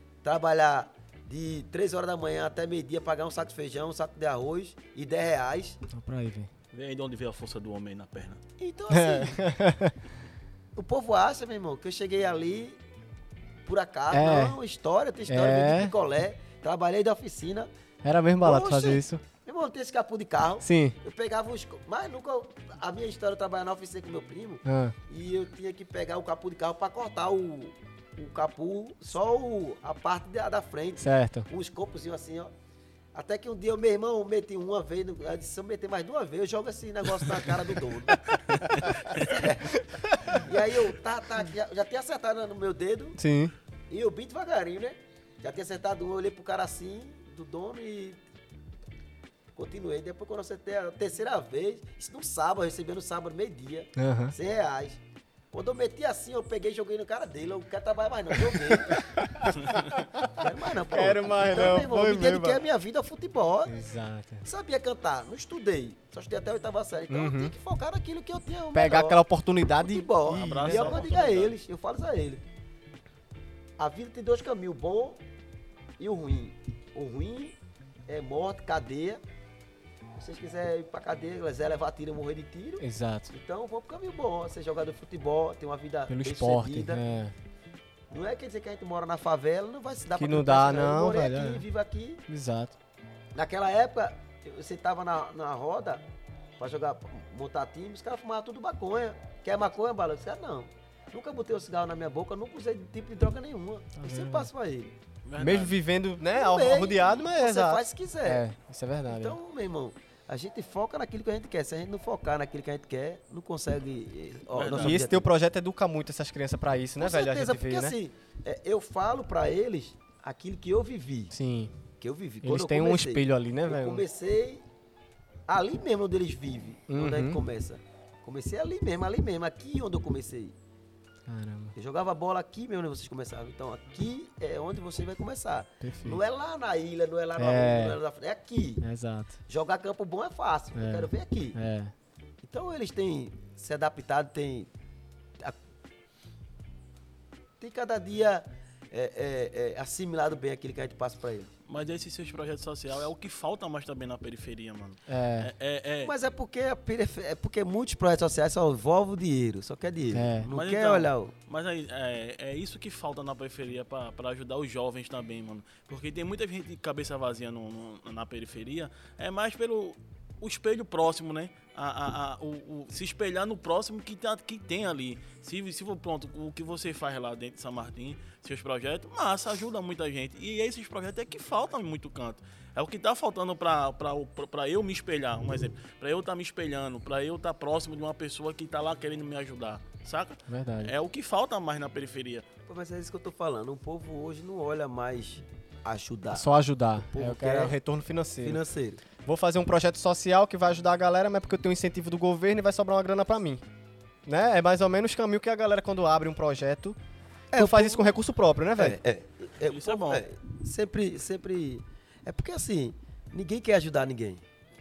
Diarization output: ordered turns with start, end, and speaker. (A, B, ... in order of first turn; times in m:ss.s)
0:00.2-0:05.8 A
0:05.9-0:06.5 B
0:06.7-0:08.4 C
0:08.6-0:09.4 A
0:08.9-0:10.0 B
0:10.8-0:12.8 A
0:13.7-0:17.7 A
0:14.1-0:14.6 B
0:15.3-0:15.9 B
0:18.0-0:19.2 B
0:18.4-0:32.5 A
0:20.6-0:21.0 B
0:24.6-0:25.0 B
0:31.0-0:31.5 B
0:33.1-0:43.2 A
0:39.9-0:40.4 B
0:43.2-0:43.5 B
0:43.9-0:48.2 A
0:49.6-0:55.0 A
0:54.0-0:54.4 B
0:55.5-0:59.5 A
0:58.5-1:02.6 B
1:00.2-1:03.7 A
1:03.7-1:04.4 B
1:04.4-1:09.2 A
1:07.1-1:07.5 B
1:08.7-1:11.1 B
1:09.8-1:12.4 A
1:10.3-1:11.5 C
1:13.8-1:15.2 A
1:16.0-1:17.6 A
1:18.1-1:19.2 A
1:20.2-1:27.0 A
1:22.8-1:23.3 B
1:26.1-1:27.3 B
1:28.1-1:32.2 A
1:30.2-1:31.6 B
1:32.3-1:32.7 B
1:33.4-1:36.0 A
1:36.6-1:44.9 A
1:44.0-1:44.5 B
1:45.3-1:45.8 C
1:45.4-1:49.4 B
1:46.3-1:48.4 A
1:49.1-1:55.3 A
1:54.5-1:55.0 C
1:54.7-1:58.0 B
1:57.0-2:01.3 A
2:01.3-2:01.7 B
2:02.0-2:04.6 A
2:02.4-2:04.0 B
2:05.5-2:10.6 A
2:06.9-2:07.4 B
2:11.3-2:11.7 B
2:11.7-2:18.8 A
2:15.8-2:16.2 B
2:17.4-2:18.0 B
2:18.8-2:19.4 B
2:19.5-2:21.6 A
2:20.8-2:21.9 B
2:22.4-2:24.7 A
2:27.6-2:31.5 A
2:31.7-2:36.1 C
2:35.1-2:35.5 B
2:36.0-2:41.3 A
2:40.1-2:40.5 B
2:40.5-3:12.5 C
3:10.5-3:10.9 B
3:12.7-3:16.5 A
3:16.3-3:18.6 B
3:17.1-3:17.8 A
3:18.4-3:19.0 A
3:19.2-3:23.6 B
3:24.3-3:27.0 B
3:27.5-3:28.1 A
3:27.6-3:29.0 B
3:28.8-3:34.4 A
3:29.6-3:30.2 C